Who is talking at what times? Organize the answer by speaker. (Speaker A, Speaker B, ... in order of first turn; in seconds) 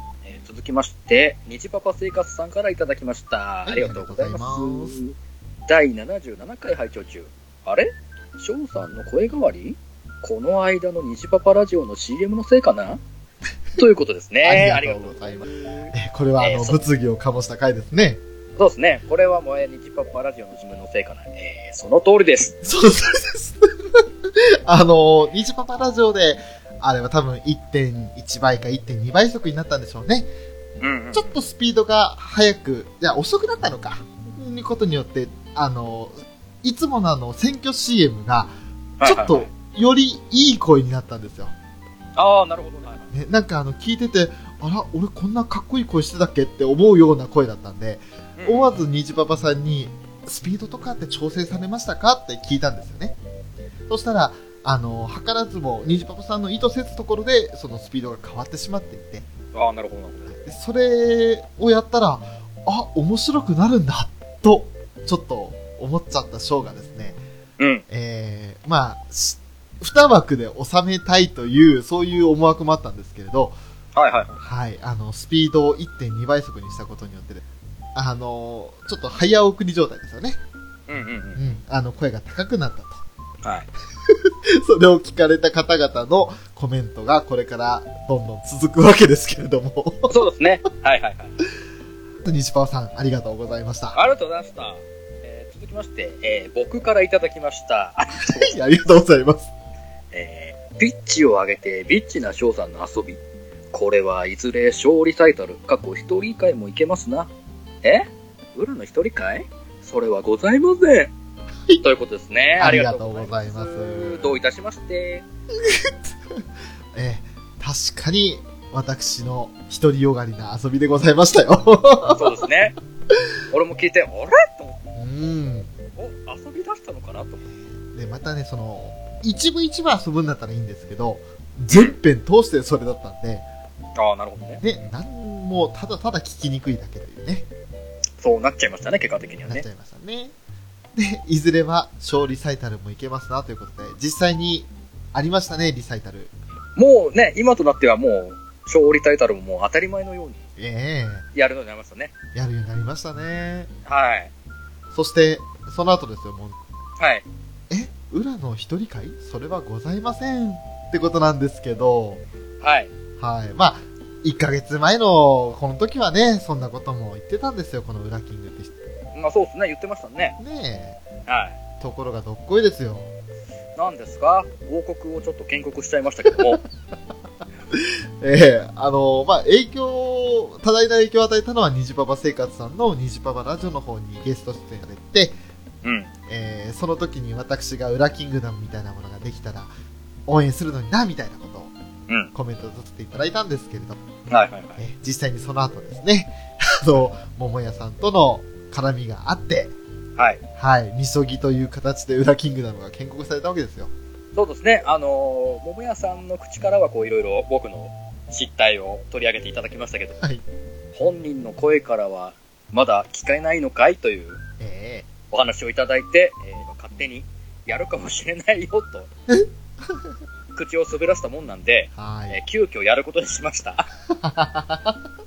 Speaker A: 0.2-5.1, 5.7-13.0, 13.8-16.8, 18.6-22.6, 30.8-31.4, 39.0-39.5, 42.1-43.1, 48.4-48.7, 59.5-60.3, 67.6-67.8, 73.9-74.4, 80.9-81.4, 83.4-83.7, 90.1-91.4, 93.9-98.5, 100.1-103.2, 103.7-107.3, 107.8-111.1, 111.8-115.2, 122.1-122.8, 123.5-124.8, 126.0-127.4, 131.7-132.0, 133.9-134.6, 138.2-139.6, 146.8-150.4, 151.3-152.1, 153.8-154.3, 157.0-157.2, 162.6-162.9, 169.1-170.4, 171.3-171.6, 173.8-176.6, 185.8-186.1, 194.3-194.8, 200.2-200.4, 204.3-210.2, 210.9-214.4, 215.3-219.1, 220.5-223.9
Speaker B: 3.6-5.0, 14.4-18.2, 22.6-30.3, 31.1-41.5, 43.1-53.2, 53.9-59.3, 60.3-67.2, 67.9-73.6, 74.4-77.4, 77.9-80.4, 81.3-83.0, 84.0-90.2, 92.2-94.0, 98.2-99.5, 112.6-114.3, 115.5-122.4, 124.9-125.7, 127.4-133.5, 134.6-137.4, 139.4-140.3, 140.9-146.3, 150.6-151.3, 152.3-153.7, 154.9-156.6, 157.7-162.2, 163.2-168.8, 170.4-171.0, 171.8-173.1, 177.7-185.4, 186.3-189.7, 190.2-191.7, 192.3-194.0, 194.8-199.8, 200.6-203.9, 210.2-210.4, 214.6-215.1, 219.3-220.1, 221.9-222.4, 224.1-225.0